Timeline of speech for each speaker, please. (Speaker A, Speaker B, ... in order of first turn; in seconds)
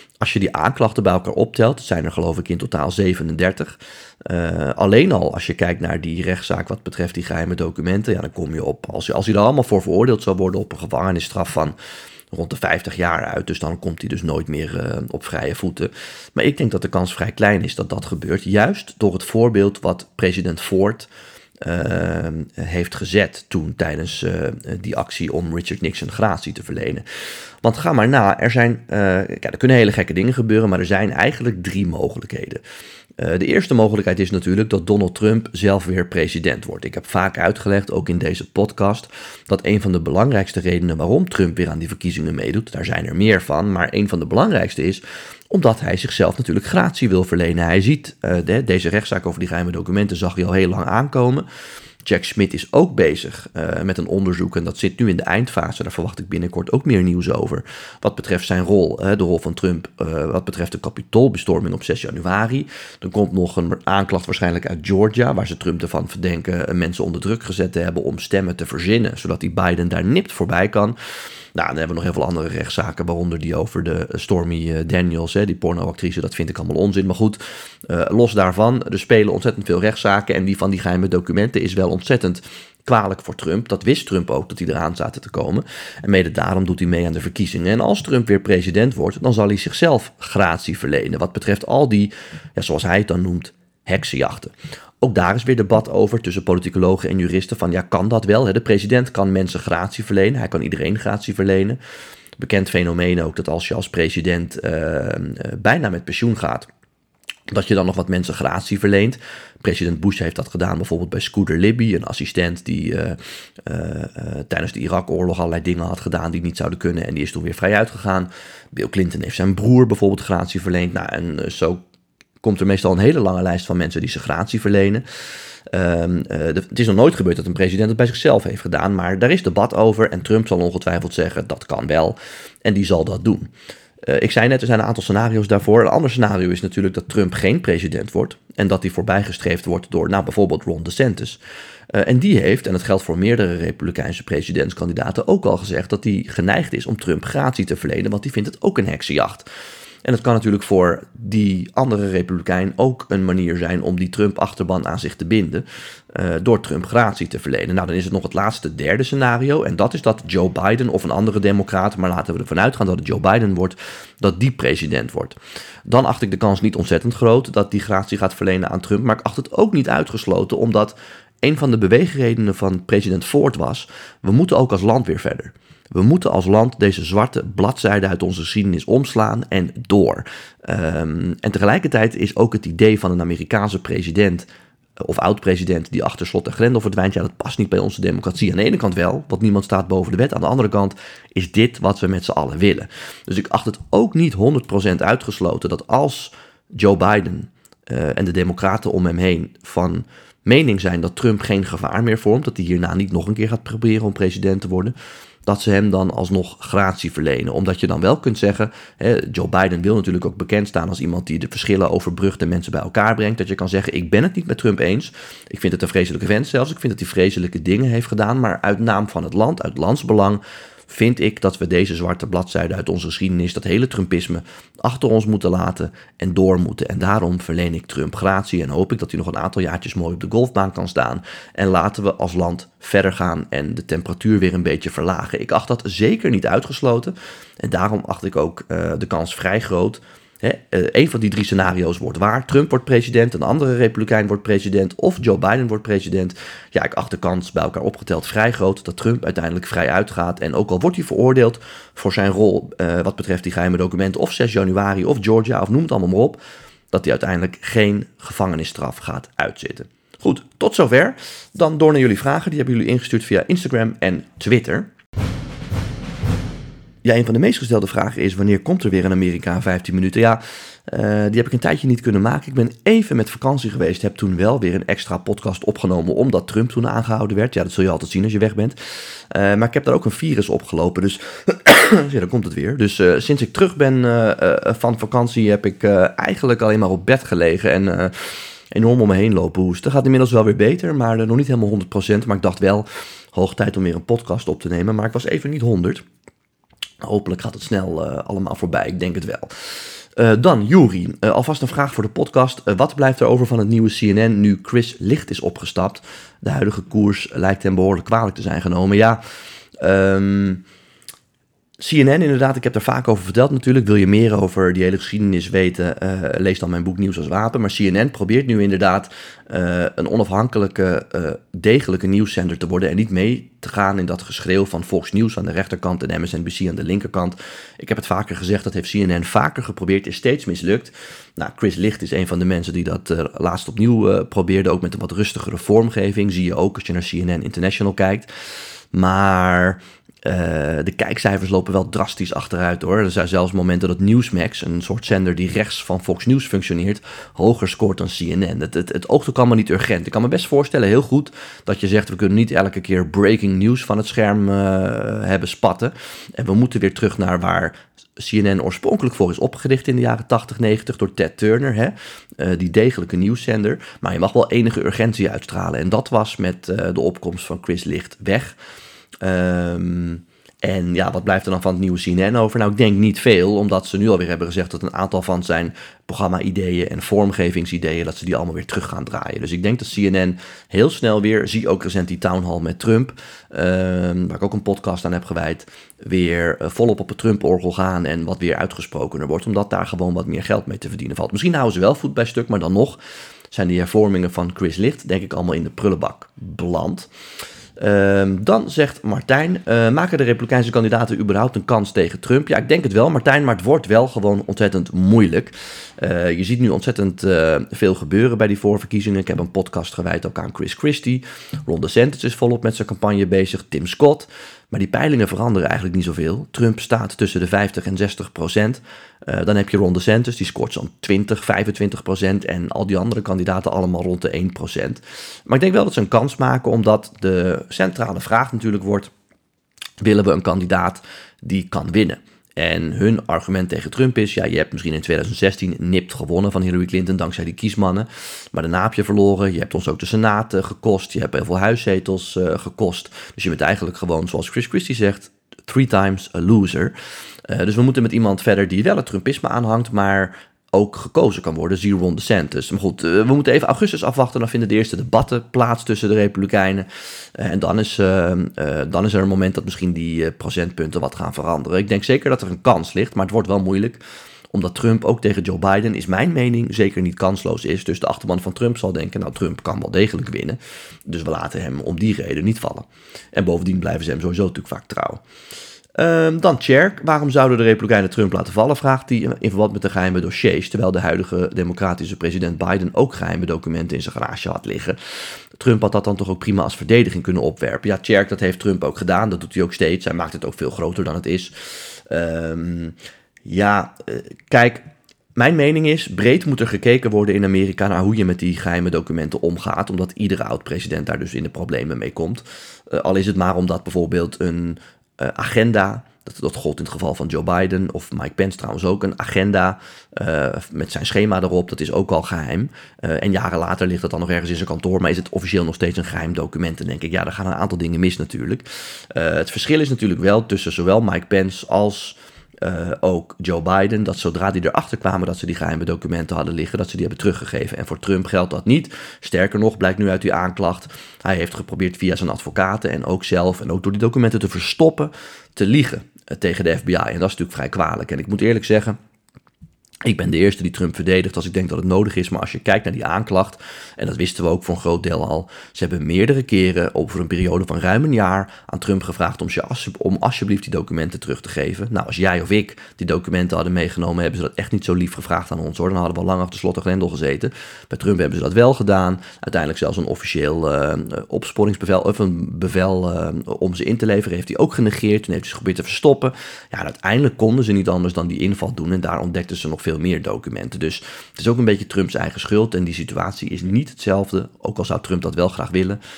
Speaker A: 0.2-11.7, 12.3-21.1, 21.6-27.0, 27.6-32.6, 33.2-51.4, 52.0-71.0, 71.5-101.8, 102.4-106.7, 107.5-121.8, 122.4-125.0, 125.7-133.5, 134.0-141.4, 141.9-149.4, 150.0-184.5, 185.0-204.9, 205.4-264.9, 267.0-296.0, 297.0-299.5, 300.1-309.2, 309.8-310.6, 311.8-338.3, 338.9-368.5, 369.2-393.0, 393.5-397.1, 397.8-429.1, 430.0-446.9, 447.5-475.2, 475.9-485.0, 485.6-539.0, 540.0-576.0